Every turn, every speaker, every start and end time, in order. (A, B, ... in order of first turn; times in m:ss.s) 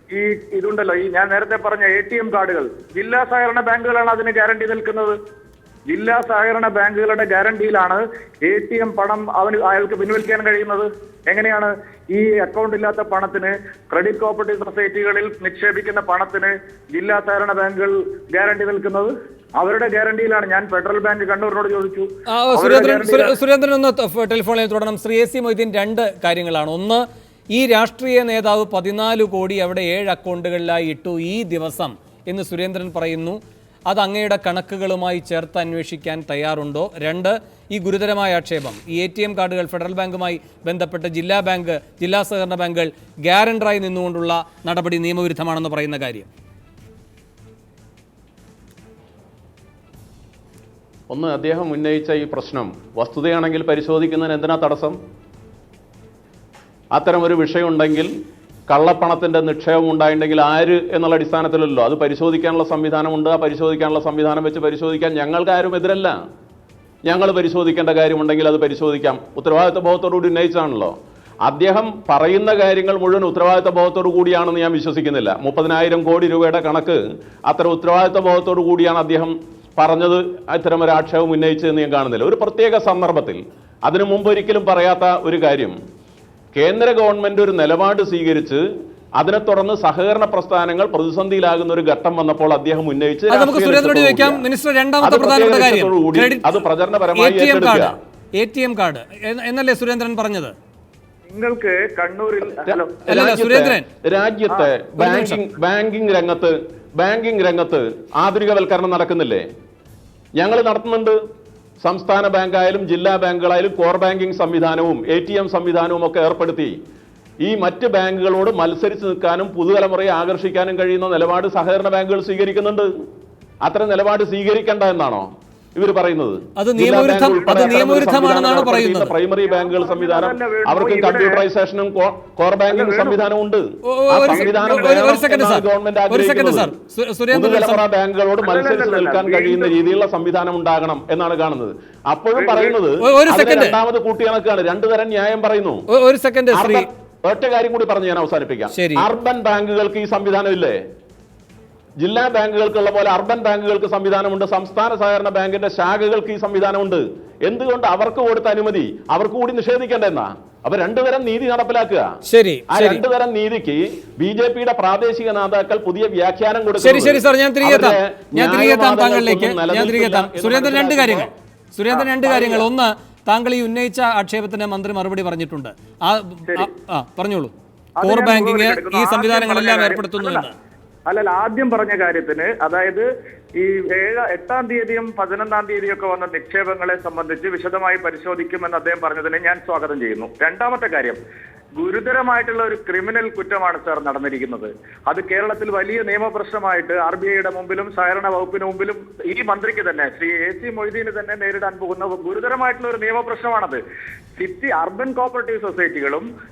0:00.1-0:05.1 A
0:05.9-0:23.3 A
0:22.3-0:27.0 B
0:27.5-0:46.3 B
0:51.1-0:55.0 C
0:56.9-0:58.1 C
0:58.7-1:06.1 C
1:07.0-1:10.9 C
1:11.4-1:25.8 C
1:26.5-1:28.6 C
1:29.2-1:34.4 C
1:33.3-1:36.6 B
1:35.0-1:37.9 C
1:37.1-1:40.5 B
1:41.3-1:43.0 A
1:42.6-1:49.4 C
1:43.1-1:43.8 B
1:45.0-1:45.4 B
1:50.4-1:51.2 C
1:51.8-1:56.7 C
1:57.4-2:02.9 C
2:03.6-2:16.8 C
2:06.6-2:09.1 B
2:07.4-2:07.8 A
2:09.5-2:11.4 A
2:12.7-2:13.2 A
2:13.8-2:17.8 B
2:14.3-2:15.1 A
2:17.3-2:25.8 C
2:18.4-2:19.8 A
2:22.4-2:22.8 A
2:23.0-2:23.8 B
2:25.9-2:26.9 B
2:26.5-2:30.8 C
2:28.7-2:29.1 B
2:32.0-2:42.1 C
2:42.2-2:43.0 B
2:42.7-2:51.3 C
2:46.8-3:00.5 B
2:52.2-2:52.7 C
2:58.0-3:00.5 A
3:01.1-3:03.0 A
3:03.6-3:11.2 A
3:11.8-3:23.8 A
3:24.4-3:26.2 A